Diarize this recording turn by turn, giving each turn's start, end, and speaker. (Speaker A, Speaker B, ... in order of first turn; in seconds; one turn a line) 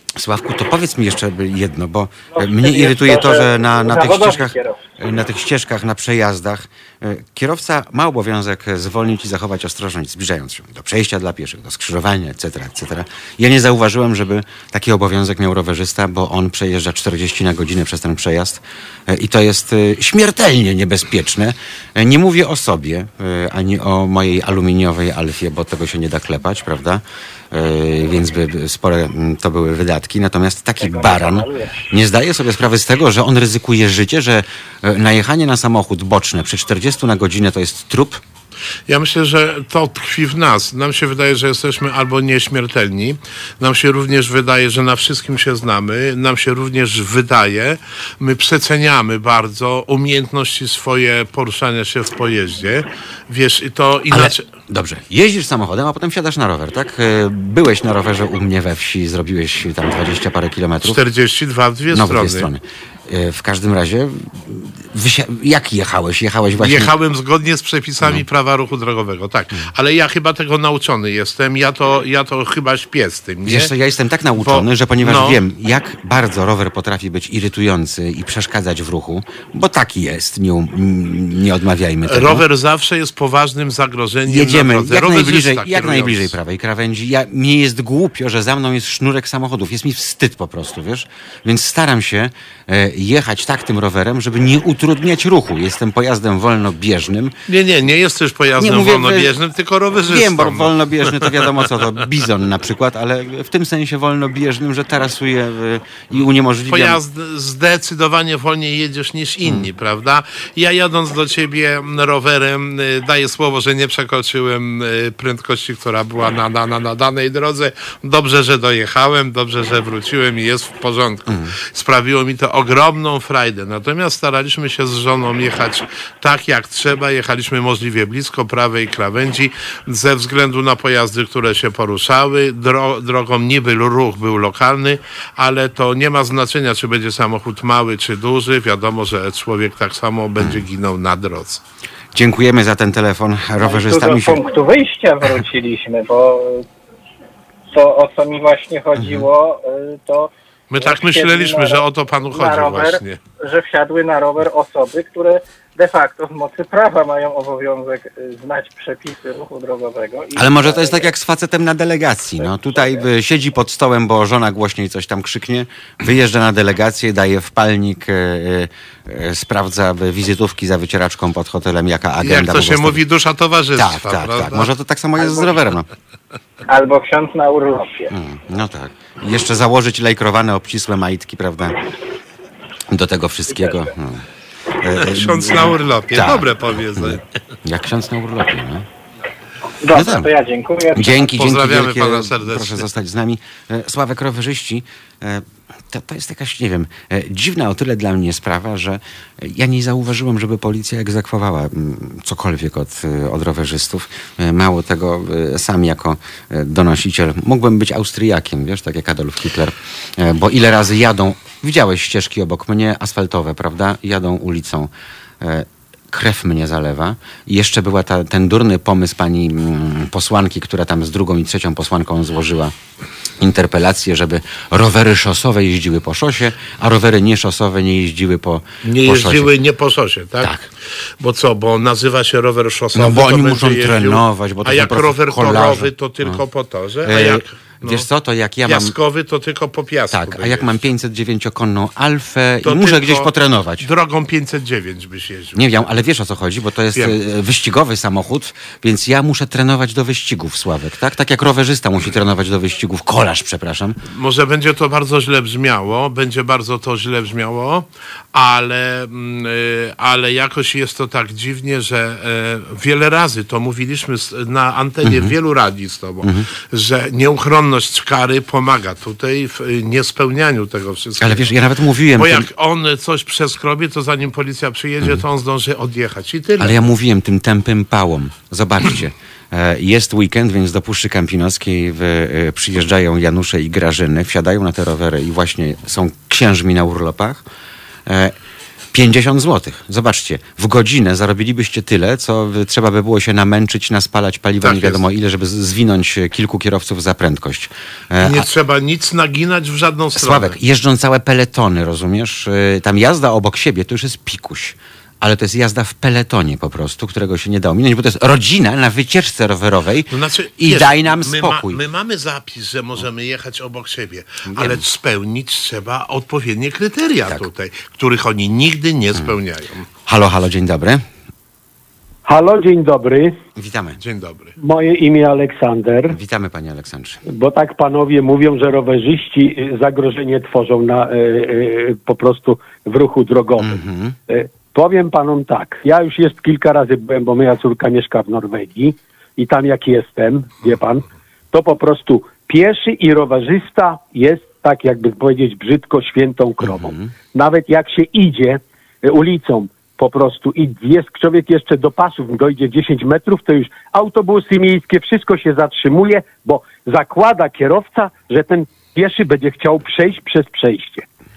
Speaker A: 0.2-38.2
Speaker B: 2.3-4.8
Speaker B: 30.8-31.8
Speaker C: 38.9-54.4
Speaker A: 54.1-61.0
Speaker C: 60.8-62.5
Speaker A: 61.9-66.9
Speaker C: 66.6-73.7
Speaker A: 73.4-82.4
Speaker C: 74.4-75.4
Speaker C: 82.1-86.3
Speaker A: 84.2-97.3
Speaker C: 97.5-101.6
Speaker A: 98.6-99.3
Speaker A: 100.0-107.0
Speaker C: 106.7-141.6
Speaker A: 121.3-121.5
Speaker A: 142.1-144.4
Speaker B: 143.6-146.7
Speaker B: 147.7-161.1
Speaker A: 148.9-149.3
Speaker C: 150.7-153.2
Speaker A: 160.3-173.0
Speaker B: 162.7-163.0
Speaker C: 172.2-174.7
Speaker A: 173.8-175.9
Speaker B: 176.7-178.1
Speaker A: 178.1-181.8
Speaker A: 182.9-184.2
Speaker B: 183.6-183.9
Speaker A: 184.8-188.9
Speaker C: 184.9-187.2
Speaker B: 189.8-191.3
Speaker A: 189.9-190.3
Speaker A: 190.9-222.7
Speaker C: 191.4-192.8
Speaker A: 223.4-229.5
Speaker C: 228.8-230.5
Speaker A: 230.4-230.7
Speaker C: 231.2-238.1
Speaker A: 232.9-236.4
Speaker A: 237.0-238.9
Speaker C: 238.7-240.7
Speaker A: 240.1-243.9
Speaker C: 242.6-243.3
Speaker C: 243.8-245.8
Speaker A: 245.5-254.0
Speaker C: 254.1-271.5
Speaker A: 265.0-265.3
Speaker A: 271.2-272.5
Speaker C: 272.1-276.8
Speaker A: 276.6-287.4
Speaker A: 288.1-288.3
Speaker A: 288.9-298.5
Speaker C: 294.6-295.0
Speaker C: 298.2-300.6
Speaker A: 300.1-311.8
Speaker C: 310.1-319.9
Speaker A: 314.5-314.8
Speaker A: 320.1-321.0
Speaker D: 322.3-323.4
Speaker A: 323.6-324.0
Speaker C: 324.0-324.6
Speaker D: 324.6-326.2
Speaker A: 326.1-327.2
Speaker D: 327.3-333.7
Speaker A: 333.6-334.1
Speaker D: 334.3-361.1
Speaker A: 346.6-347.1